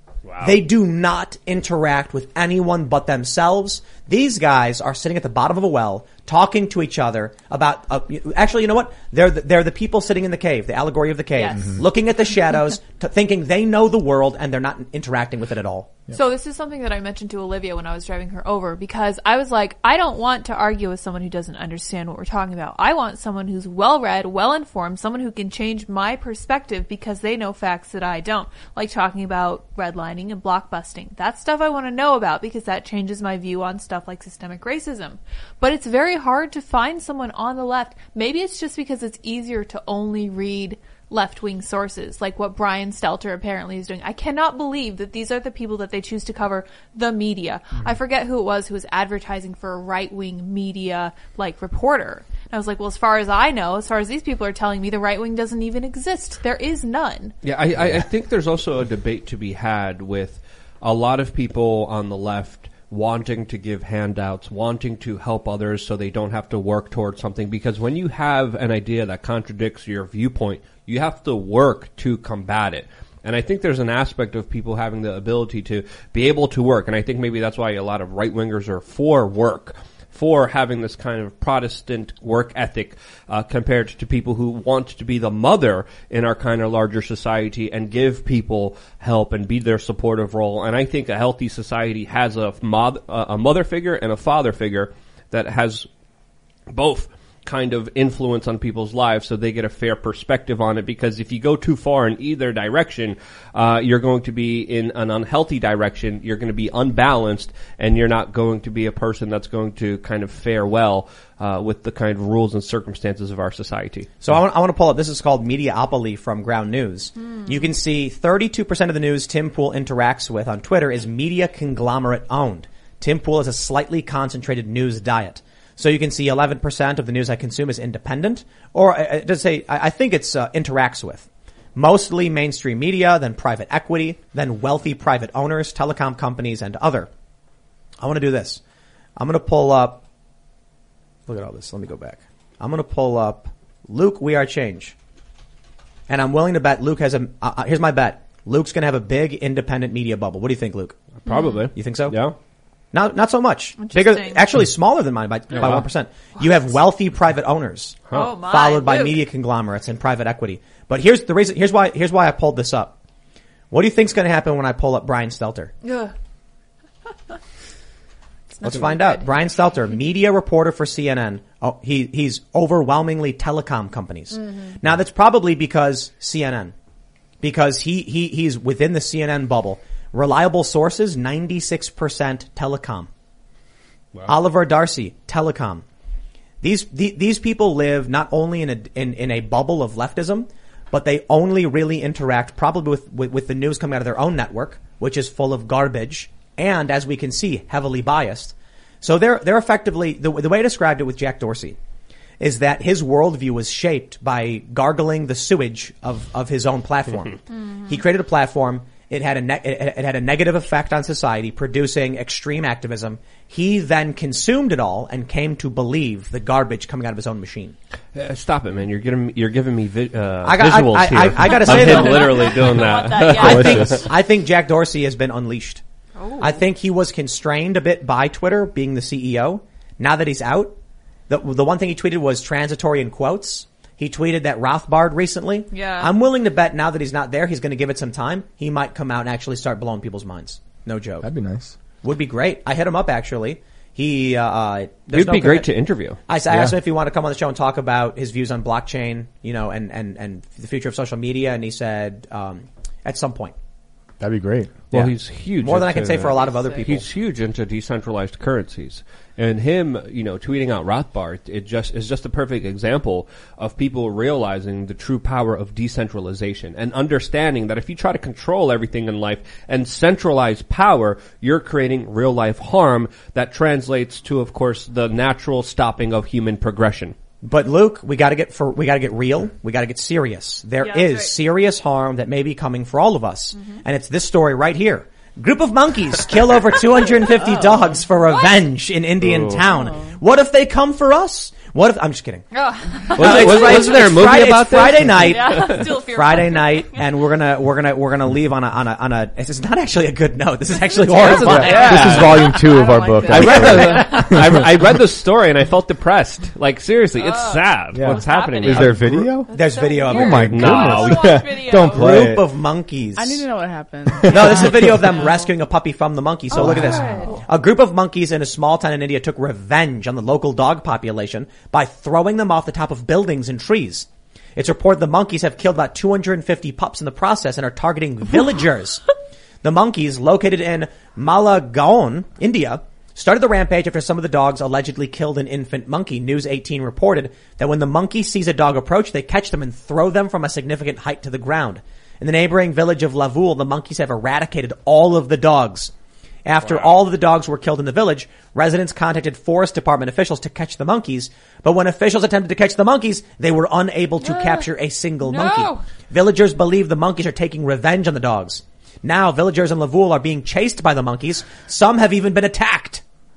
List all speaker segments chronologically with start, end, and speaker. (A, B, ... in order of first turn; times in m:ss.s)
0:00.3-0:00.6 A
0:00.4-0:16.0 B
0:11.4-0:11.8 C
0:16.1-0:57.3 C
0:57.4-1:35.9 A
1:36.7-1:54.1 A
1:54.2-2:17.1 B
1:57.2-1:57.7 C
2:18.0-2:18.6 B
2:19.2-2:20.0 B
2:21.3-2:25.0 B
2:26.1-2:31.0 B
2:31.3-2:31.6 C
2:31.3-2:32.4 A
2:31.8-2:32.2 B
2:32.9-2:43.0 B
2:33.8-2:34.5 C
2:35.5-2:35.9 A
2:36.4-2:36.8 C
2:38.1-2:39.3 C
2:43.7-2:45.7 B
2:45.8-2:46.1 C
2:48.5-2:49.3 C
2:48.6-2:56.7 B
2:54.3-2:54.8 C
2:57.4-3:03.1 B
3:04.3-3:05.8 B
3:06.6-3:21.8 B
3:22.4-3:37.8 B
3:27.5-3:28.0 C
3:38.2-3:44.1 A
3:40.4-3:42.7 B
3:41.4-3:44.1 C
3:43.3-3:45.8 B
3:43.4-3:44.0 D
3:46.2-3:46.6 C
3:46.4-3:50.8 B
3:51.3-4:01.3 B
3:55.7-3:56.1 C
4:01.2-4:01.8 D
4:02.0-4:05.7 B
4:05.1-4:06.2 A
4:06.3-4:13.6 B
4:06.5-4:06.8 D
4:14.2-4:15.1 D
4:14.9-4:37.2 A
4:15.6-4:17.1 B
4:16.2-4:16.9 E
4:37.4-4:52.4 B
4:40.8-4:41.4 C
4:43.5-4:43.8 C
4:47.2-4:48.7 C
4:49.2-4:49.6 A
4:49.7-4:50.2 E
4:52.5-4:54.1 C
4:53.1-5:02.2 B
4:53.2-4:55.9 A
4:55.1-4:57.0 C
5:00.7-5:04.1 C
5:01.2-5:04.8 D
5:01.4-5:04.5 E
5:01.7-5:02.5 A
5:03.3-5:09.3 A
5:07.2-5:12.3 C
5:07.9-5:09.5 D
5:09.5-5:10.7 B
5:10.1-5:12.4 D
5:10.4-5:11.5 A
5:11.9-5:13.5 B
5:13.2-5:15.4 E
5:14.2-5:15.0 D
5:14.3-5:29.0 B
5:16.5-5:17.4 C
5:16.6-5:17.1 D
5:29.6-5:45.9 B
5:46.4-6:03.0 B
5:54.2-5:54.7 C
5:55.2-5:55.8 C